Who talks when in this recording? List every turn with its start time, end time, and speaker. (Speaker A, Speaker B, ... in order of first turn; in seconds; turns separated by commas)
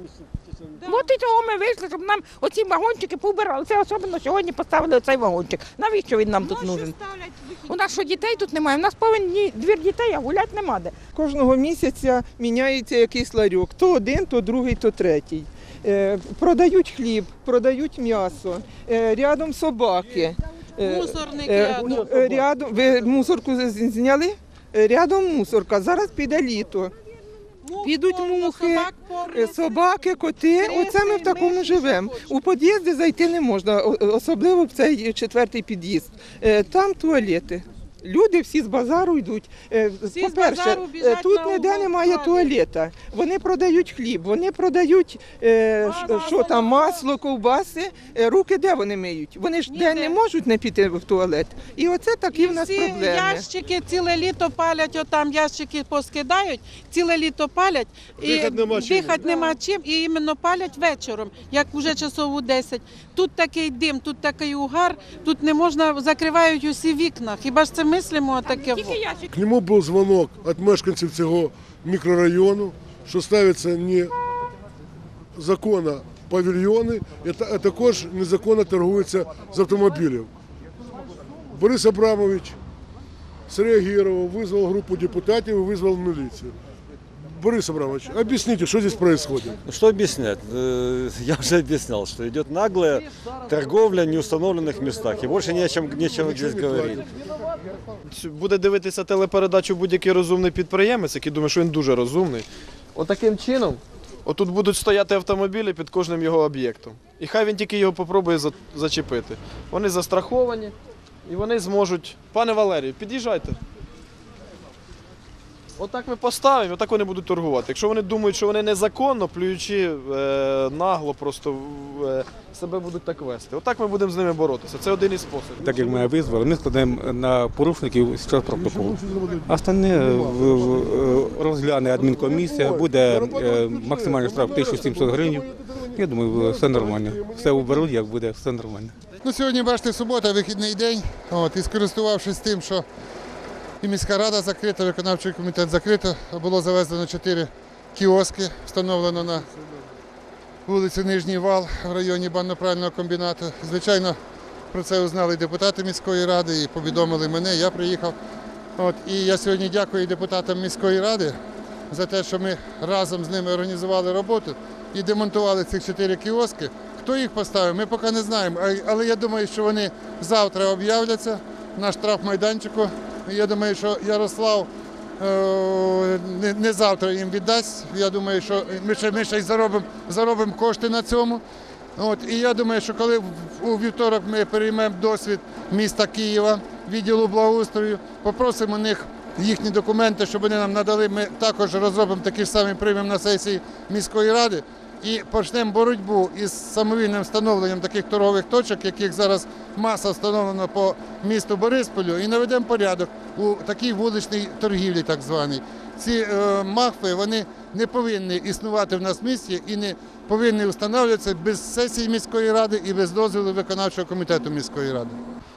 Speaker A: 0.8-11.0, Speaker B: 6.4-6.9, Speaker C: 11.1-26.9, Speaker B: 20.8-22.1, Speaker B: 27.6-32.4, Speaker C: 27.8-53.5, Speaker B: 40.1-42.5, Speaker B: 45.9-47.0, Speaker B: 49.7-50.2, Speaker B: 52.3-69.0, Speaker D: 58.2-59.5, Speaker A: 68.4-69.3, Speaker D: 69.3-74.1, Speaker D: 75.3-80.3, Speaker D: 81.5-82.6, Speaker D: 83.5-86.5, Speaker D: 87.2-89.6, Speaker E: 89.7-97.0, Speaker D: 96.1-97.0, Speaker F: 98.1-110.7, Speaker F: 111.3-113.6, Speaker F: 115.8-125.7, Speaker G: 125.6-135.4, Speaker D: 125.6-126.5, Speaker D: 128.4-131.1, Speaker D: 131.9-137.9, Speaker G: 135.9-138.9, Speaker H: 139.2-142.8, Speaker H: 143.8-149.5, Speaker H: 150.7-154.2, Speaker H: 154.7-158.2, Speaker H: 158.8-161.3, Speaker H: 161.9-181.4, Speaker H: 182.0-215.2